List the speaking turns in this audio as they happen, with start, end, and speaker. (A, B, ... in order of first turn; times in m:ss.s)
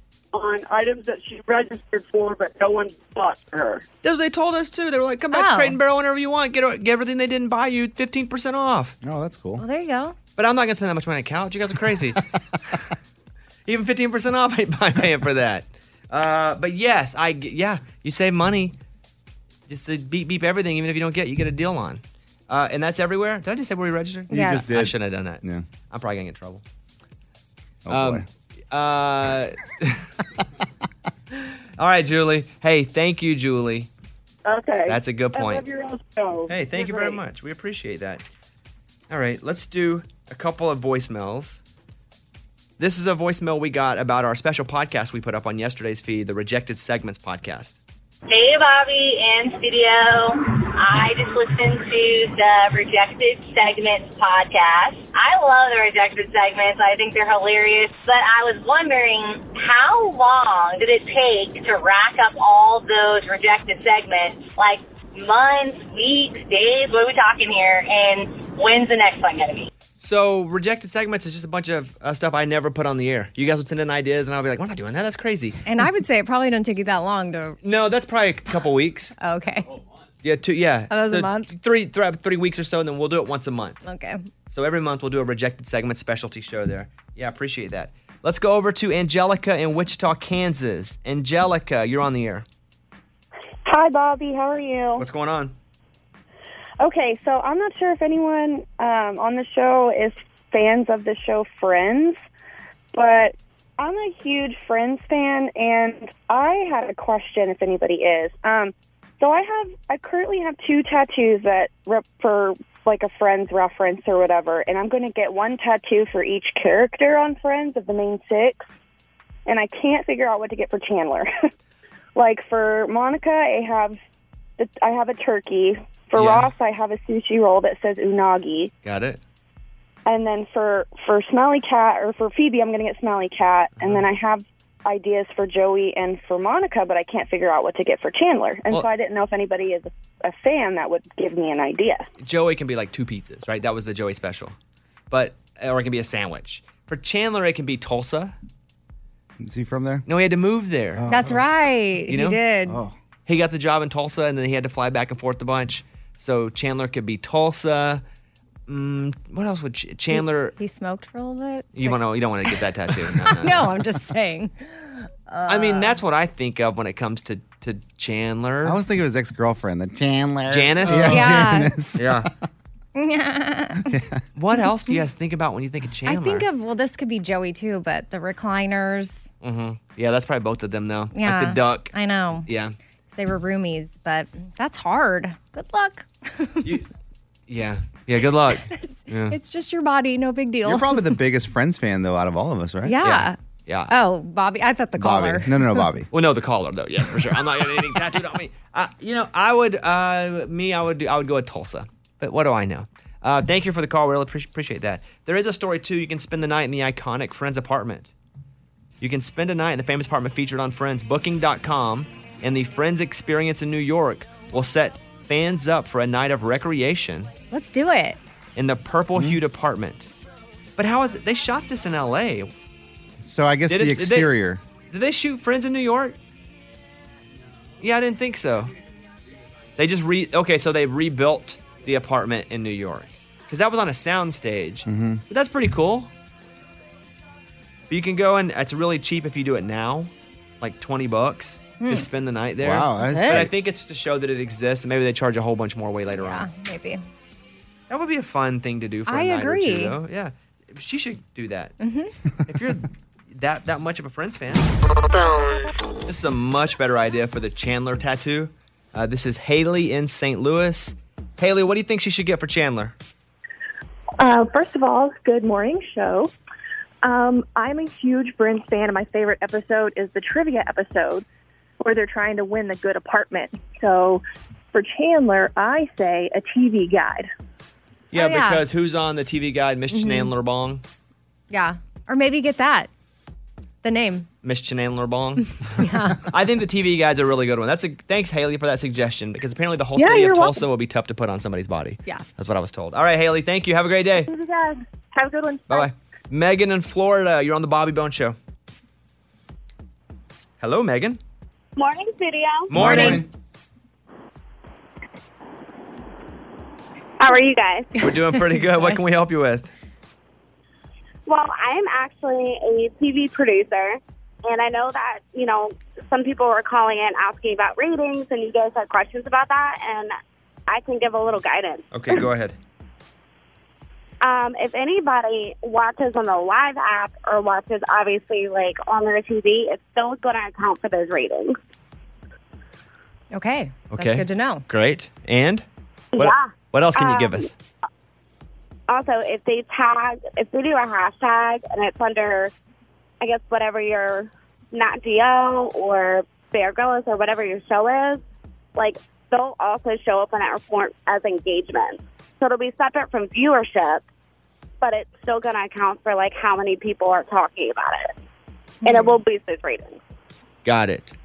0:00.3-0:03.8 A
0:04.0-0:09.0 B
0:05.3-0:05.8 C
0:09.0-0:09.6 D
0:09.6-0:10.2 C
0:10.4-0:12.2 B
0:13.7-0:18.7 B
0:19.7-0:26.6 B
0:24.3-0:25.6 D
0:24.3-0:24.7 C
0:27.8-0:28.2 D
0:27.9-0:30.1 B
0:31.3-0:33.9 B
0:34.4-0:37.2 A
0:34.9-0:35.6 B
0:36.5-0:38.2 B
0:39.1-0:41.6 B
0:42.8-0:47.8 B
0:48.3-1:09.7 E
1:10.0-1:15.6 B
1:15.6-1:17.6 C
1:17.6-1:19.1 B
1:19.2-1:19.7 C
1:20.2-1:23.8 B
1:20.9-1:21.5 C
1:23.8-1:24.2 C
1:24.5-1:32.4 B
1:33.6-1:35.0 F
1:35.0-1:35.5 B
1:36.8-1:42.2 F
1:42.9-1:58.7 F
1:59.4-2:01.3 F
2:02.1-2:04.0 F
2:04.6-2:08.7 F
2:06.1-2:06.5 B
2:08.8-2:09.2 B
2:10.0-2:22.1 F
2:22.2-2:24.5 B
2:25.1-2:28.3 B
2:29.4-2:30.0 D
2:30.0-2:31.0 B
2:31.0-2:31.4 D
2:31.1-2:32.8 C
2:32.1-2:32.4 B
2:32.7-2:32.9 D
2:33.2-2:38.0 B
2:38.7-2:40.5 B
2:40.1-2:42.5 C
2:41.8-2:43.7 B
2:43.2-2:46.0 C
2:45.5-2:48.8 B
2:48.6-2:52.3 D
2:50.5-2:51.4 B
2:50.9-2:51.7 C
2:52.0-2:52.3 B
2:52.9-2:53.9 C
2:53.8-2:54.2 D
2:54.4-2:56.5 B
2:56.0-2:59.3 C
2:59.4-3:01.9 B
3:01.1-3:02.4 C
3:02.5-3:02.7 B
3:03.1-3:06.7 C
3:07.5-3:09.4 B
3:08.7-3:11.2 C
3:10.6-3:13.0 D
3:12.8-3:13.4 C
3:13.0-3:13.9 B
3:13.9-3:15.5 C
3:15.0-3:16.1 D
3:16.1-3:28.1 B
3:29.0-3:37.3 B
3:37.5-3:38.2 C
3:38.6-3:40.1 B
3:40.8-3:42.5 B
3:43.2-3:44.6 D
3:43.7-3:44.3 B
3:44.9-3:46.2 B
3:47.8-3:48.7 B
3:49.8-3:56.1 B
3:54.8-3:55.2 D
3:57.9-4:00.1 B
4:00.6-4:06.5 B
4:01.8-4:02.1 C
4:02.6-4:03.5 D
4:03.0-4:03.5 C
4:06.2-4:07.0 C
4:07.9-4:11.7 B
4:09.1-4:09.9 C
4:11.8-4:12.1 C
4:12.5-4:14.7 B
4:16.0-4:22.9 B
4:24.2-4:26.3 G
4:27.1-4:31.2 G
4:31.8-4:34.2 G
4:34.7-4:37.3 G
4:38.1-4:40.8 B
4:38.1-4:38.6 C
4:39.9-4:40.3 C
4:41.5-4:42.9 C
4:43.8-4:44.3 C
4:44.4-4:54.3 B
4:45.6-4:46.2 C
4:55.7-4:58.4 B
5:00.6-5:01.2 B
5:01.8-5:02.7 H
5:02.7-5:03.3 B
5:02.8-5:03.3 D
5:02.8-5:03.2 C
5:07.2-5:07.9 H
5:08.0-5:09.7 B
5:11.3-5:20.1 H
5:20.7-5:22.2 H
5:21.9-5:22.6 B
5:24.2-5:31.6 H
5:33.3-5:34.6 C
5:33.9-5:35.6 B
5:36.1-5:37.4 H
5:36.2-5:37.5 B
5:38.9-5:42.5 H
5:43.2-5:48.2 H
5:48.8-5:54.0 H
5:54.8-5:58.1 H
5:58.8-6:00.0 H
5:58.8-5:59.1 C
6:00.6-6:01.1 B